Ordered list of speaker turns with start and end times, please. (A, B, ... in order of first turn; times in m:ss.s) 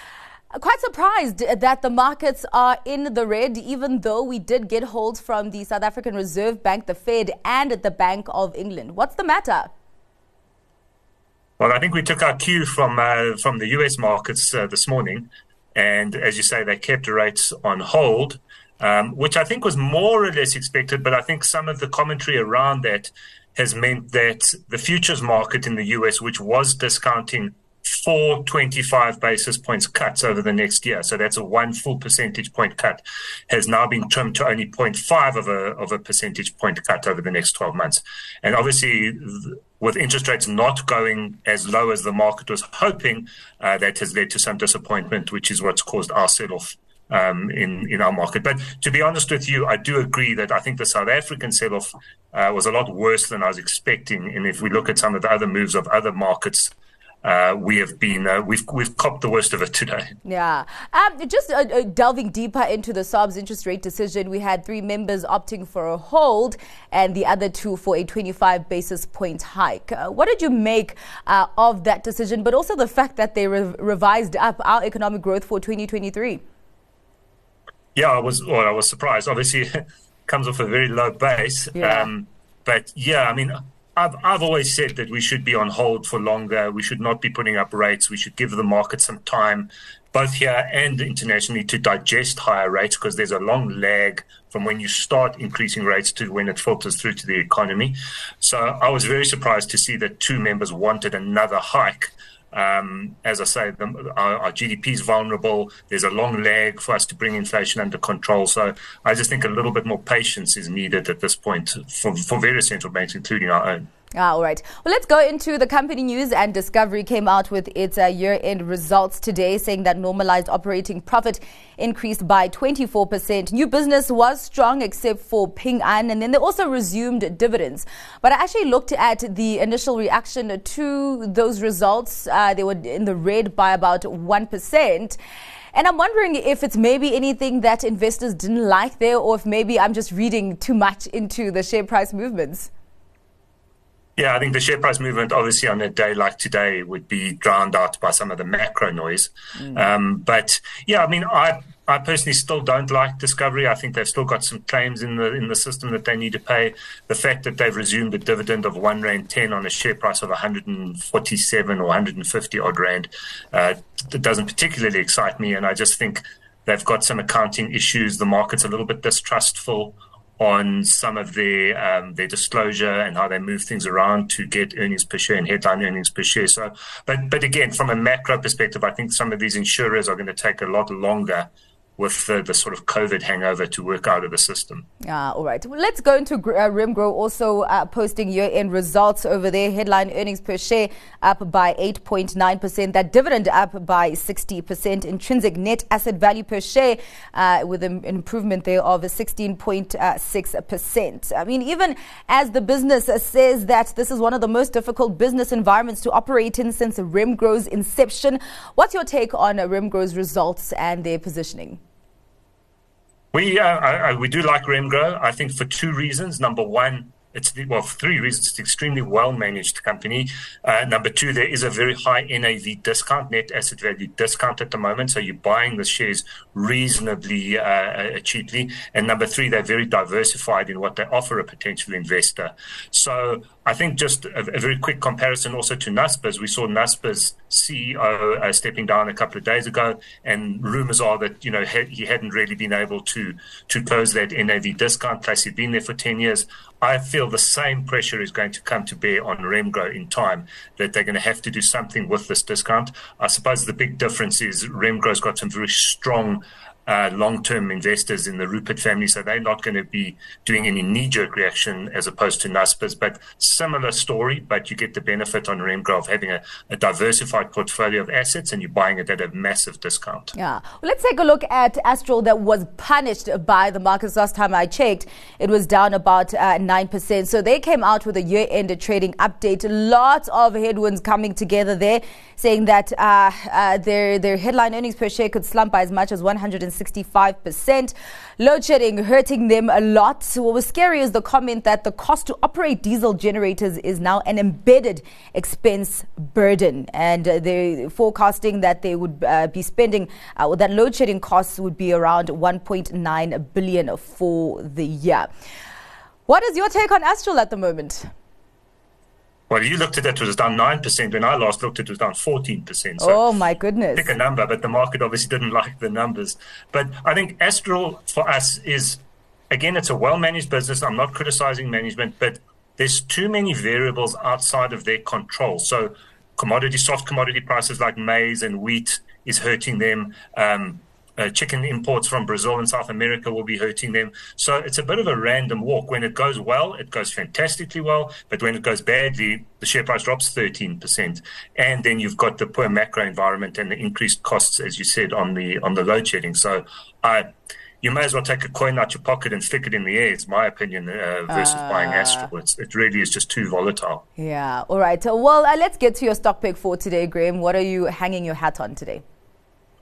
0:00.5-0:09.7 A
0:11.6-0:56.7 B
0:57.2-1:00.1 B
1:00.2-1:16.4 A
1:18.0-1:53.9 B
1:21.8-1:22.1 A
1:54.2-2:15.2 A
2:15.7-2:22.7 A
2:24.2-3:04.8 B
3:05.0-3:31.8 A
3:33.3-4:30.3 B
4:30.4-5:05.3 A
5:06.3-5:08.1 A
5:09.5-5:13.2 B
5:13.0-5:14.1 A
5:14.0-5:47.3 B
5:47.8-5:54.0 B
5:51.3-5:52.3 A
5:54.2-5:59.0 A